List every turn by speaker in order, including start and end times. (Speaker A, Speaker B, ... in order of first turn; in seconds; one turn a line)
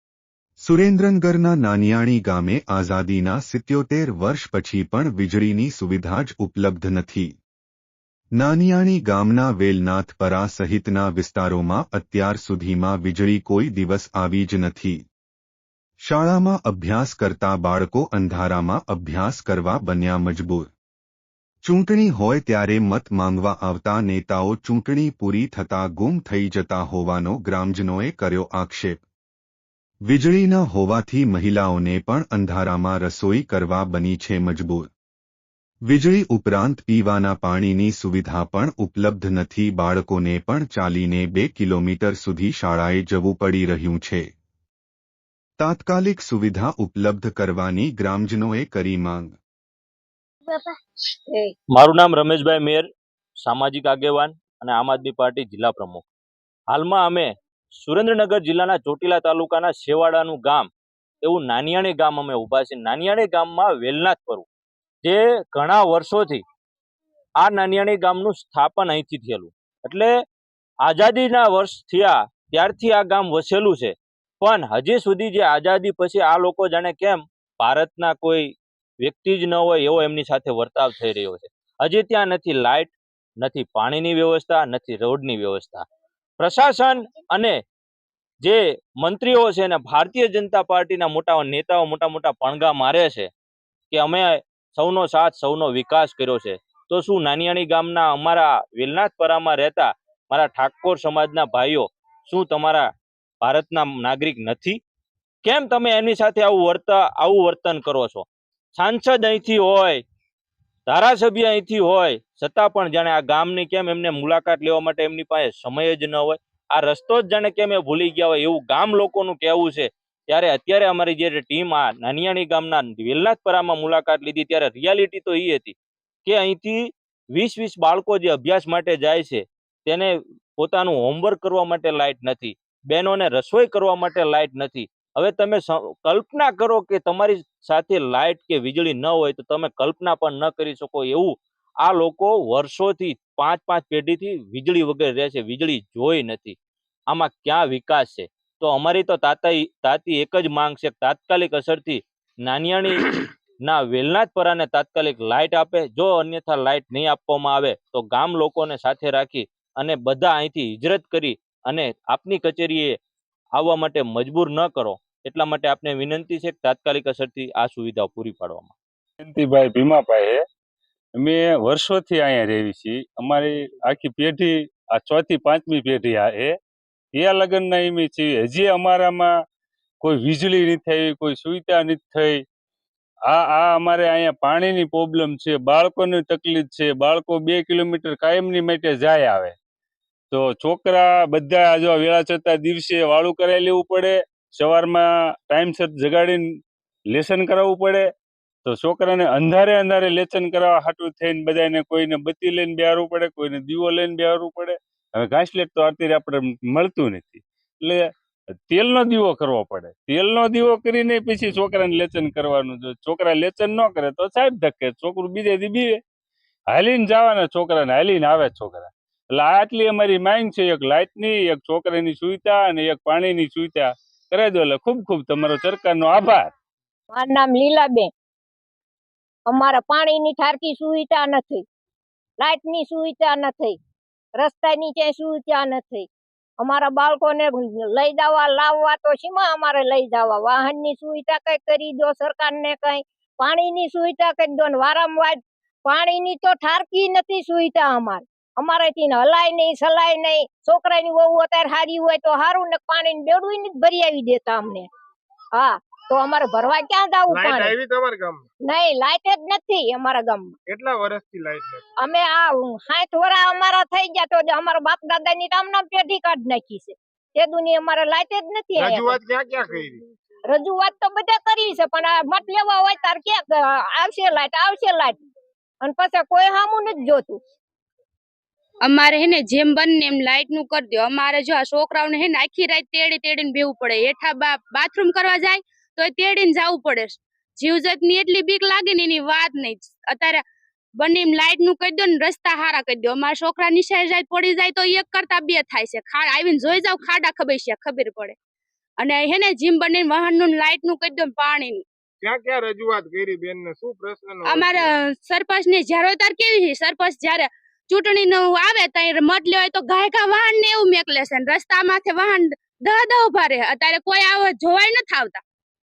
Speaker A: 0.6-7.3
Speaker A: 8.4-15.0
Speaker A: 16.0-20.7
Speaker A: 21.6-29.0
Speaker A: 30.1-34.9
Speaker A: 35.9-44.3
Speaker A: 45.6-49.4
Speaker B: 51.7-52.9
Speaker B: 53.4-56.0
Speaker B: 56.7-60.7
Speaker B: 61.2-64.5
Speaker B: 65.0-66.4
Speaker B: 67.4-70.1
Speaker B: 70.8-78.5
Speaker B: 79.0-85.8
Speaker B: 86.4-87.6
Speaker B: 88.4-93.3
Speaker B: 93.9-102.8
Speaker B: 103.4-104.8
Speaker B: 105.4-110.0
Speaker B: 110.9-146.6
Speaker B: 147.1-162.9
Speaker B: 163.6-168.7
Speaker C: 169.2-170.4
Speaker C: 171.2-176.5
Speaker C: 177.1-179.4
Speaker C: 180.0-182.4
Speaker C: 183.2-189.5
Speaker C: 190.3-196.6
Speaker C: 197.1-198.1
Speaker C: 198.6-216.0
Speaker C: 216.7-226.5
Speaker D: 227.1-228.1
Speaker D: 229.5-231.6
Speaker D: 232.4-233.8
Speaker D: 234.3-236.1
Speaker D: 236.6-254.9
Speaker D: 255.6-257.7
Speaker E: 257.3-258.4
Speaker D: 258.7-260.5
Speaker E: 260.7-261.8
Speaker D: 262.0-269.2
Speaker E: 268.7-270.0
Speaker D: 270.5-275.2
Speaker D: 275.8-277.4
Speaker F: 278.9-290.4
Speaker F: 291.0-298.4
Speaker F: 299.0-301.8
Speaker E: 302.2-304.9
Speaker F: 304.4-315.4